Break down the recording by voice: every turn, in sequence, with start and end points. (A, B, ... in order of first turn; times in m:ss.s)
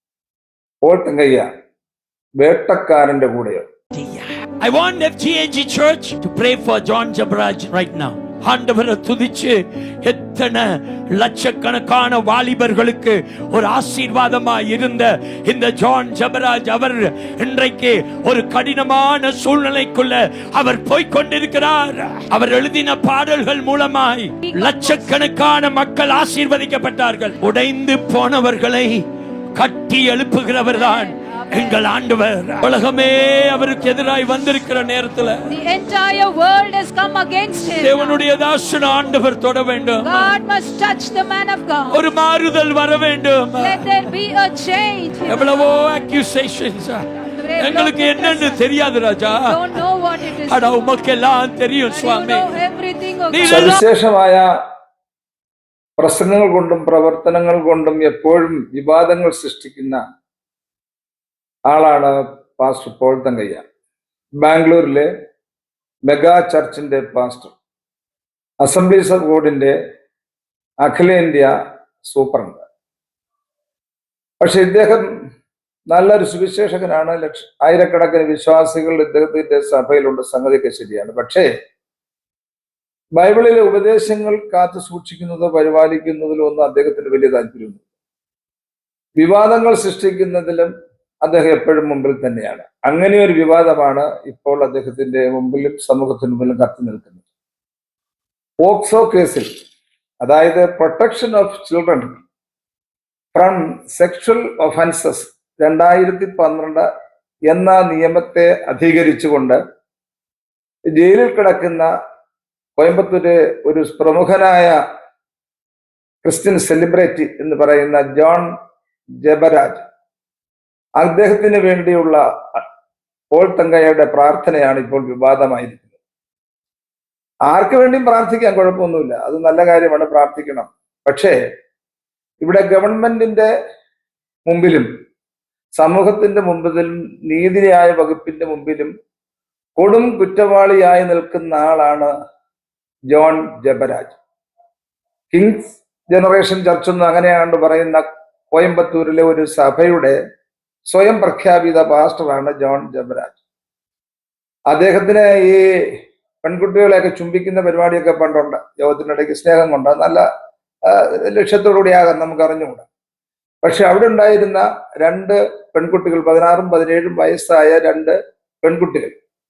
0:00.8-0:01.5 A
0:02.4-0:03.6 A
0:03.9-0:35.6 B
0:24.4-0:25.2 C
0:30.7-0:32.0 C
0:35.4-0:39.2 C
0:37.7-0:40.3 B
0:40.0-0:42.2 C
0:41.9-0:44.0 B
0:43.5-0:46.1 C
0:45.2-0:52.6 B
0:47.4-0:51.2 C
0:51.8-0:53.8 C
0:53.3-0:53.7 B
0:53.4-0:54.4 A
0:56.0-1:00.0 A
1:01.7-1:03.6 A
1:04.4-1:05.1 A
1:06.1-1:07.5 A
1:08.6-1:09.7 A
1:10.8-1:11.5 A
1:12.0-1:12.6 A
1:14.4-1:15.0 A
1:15.9-1:21.5 A
1:23.2-1:27.8 A
1:29.2-1:30.7 A
1:31.2-1:37.2 A
1:38.6-1:39.5 A
1:40.2-1:42.2 A
1:43.3-1:46.8 A
1:47.5-1:49.6 A
1:51.0-1:51.9 A
1:52.8-1:54.7 A
1:56.2-1:58.5 A
1:59.2-1:59.8 A
2:01.0-2:02.2 A
2:03.3-2:05.8 A
2:07.5-2:11.3 A
2:12.4-2:13.5 A
2:14.5-2:14.9 A
2:15.7-2:18.9 A
2:19.8-2:22.1 A
2:23.1-2:24.2 A
2:25.3-2:30.2 A
2:30.9-2:33.4 A
2:34.7-2:35.6 A
2:36.4-2:40.2 A
2:40.9-2:42.8 A
2:43.6-2:49.1 A